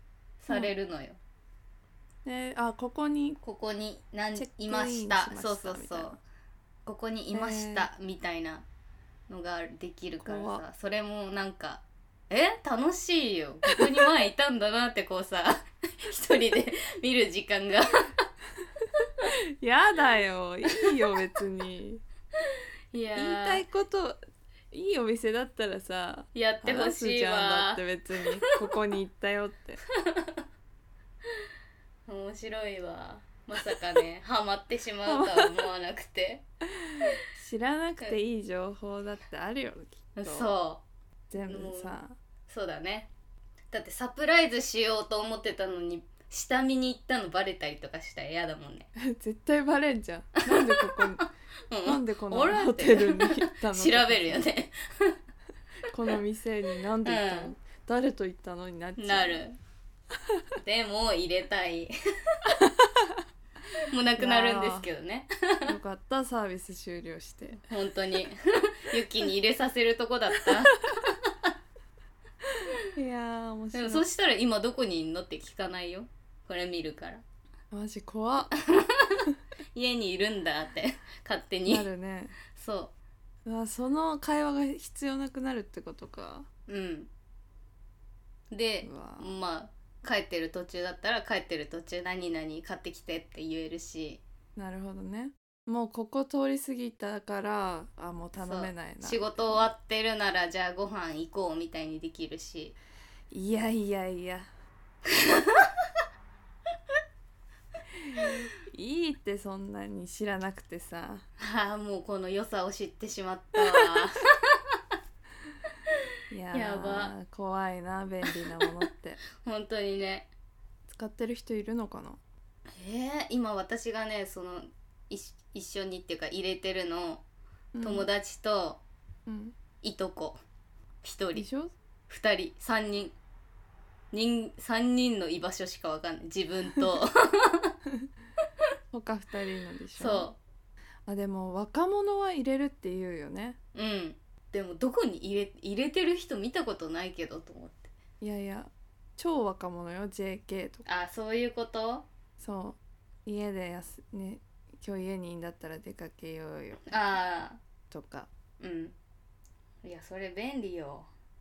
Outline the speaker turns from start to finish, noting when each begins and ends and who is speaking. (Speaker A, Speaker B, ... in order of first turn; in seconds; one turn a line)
Speaker A: 0.4-1.2
Speaker B: 2.2-3.4
Speaker A: 3.4-6.2
Speaker B: 4.3-6.2
Speaker A: 6.9-8.7
Speaker B: 7.3-7.9
Speaker A: 9.3-18.1
Speaker B: 10.2-10.6
Speaker B: 19.3-22.0
Speaker A: 22.9-23.6
Speaker B: 23.2-24.2
Speaker B: 24.7-29.8
Speaker A: 26.4-27.8
Speaker A: 30.0-30.4
Speaker A: 32.1-36.5
Speaker B: 35.1-35.5
Speaker B: 37.3-40.5
Speaker A: 40.2-40.8
Speaker B: 41.3-42.2
Speaker A: 41.5-42.0
Speaker A: 42.5-43.1
Speaker A: 43.7-48.9
Speaker B: 49.0-51.3
Speaker A: 50.5-55.2
Speaker B: 51.8-54.5
Speaker B: 55.9-59.4
Speaker A: 57.0-57.5
Speaker A: 59.0-59.6
Speaker A: 60.6-62.5
Speaker B: 62.6-63.1
Speaker A: 63.9-65.7
Speaker B: 64.2-64.9
Speaker B: 65.7-67.6
Speaker A: 67.7-71.3
Speaker B: 70.5-71.0
Speaker B: 72.8-74.0
Speaker A: 73.7-77.2
Speaker B: 77.7-78.5
Speaker A: 78.6-81.9
Speaker B: 81.7-82.4
Speaker A: 82.5-82.9
Speaker B: 83.5-86.5
Speaker A: 86.7-87.1
Speaker A: 88.5-94.2
Speaker B: 88.8-89.3
Speaker B: 94.6-99.6
Speaker A: 98.4-102.8
Speaker B: 103.3-104.5
Speaker A: 105.1-105.7
Speaker B: 108.0-111.2
Speaker A: 111.4-114.2
Speaker B: 116.3-119.2
Speaker A: 116.5-117.1
Speaker A: 119.4-120.3
Speaker B: 120.9-122.2
Speaker A: 122.8-127.2
Speaker B: 127.7-128.1
Speaker A: 127.8-128.8
Speaker B: 129.3-129.6
Speaker A: 129.8-130.4
Speaker A: 131.0-131.5
Speaker B: 131.3-131.7
Speaker A: 132.1-133.2
Speaker A: 134.1-137.7
Speaker B: 138.9-140.3
Speaker A: 140.0-140.4
Speaker B: 141.1-143.6
Speaker A: 143.8-147.9
Speaker B: 148.2-150.8
Speaker A: 150.9-152.1
Speaker B: 152.4-156.9
Speaker A: 156.9-157.6
Speaker B: 157.9-158.3
Speaker A: 158.6-158.9
Speaker A: 159.8-161.1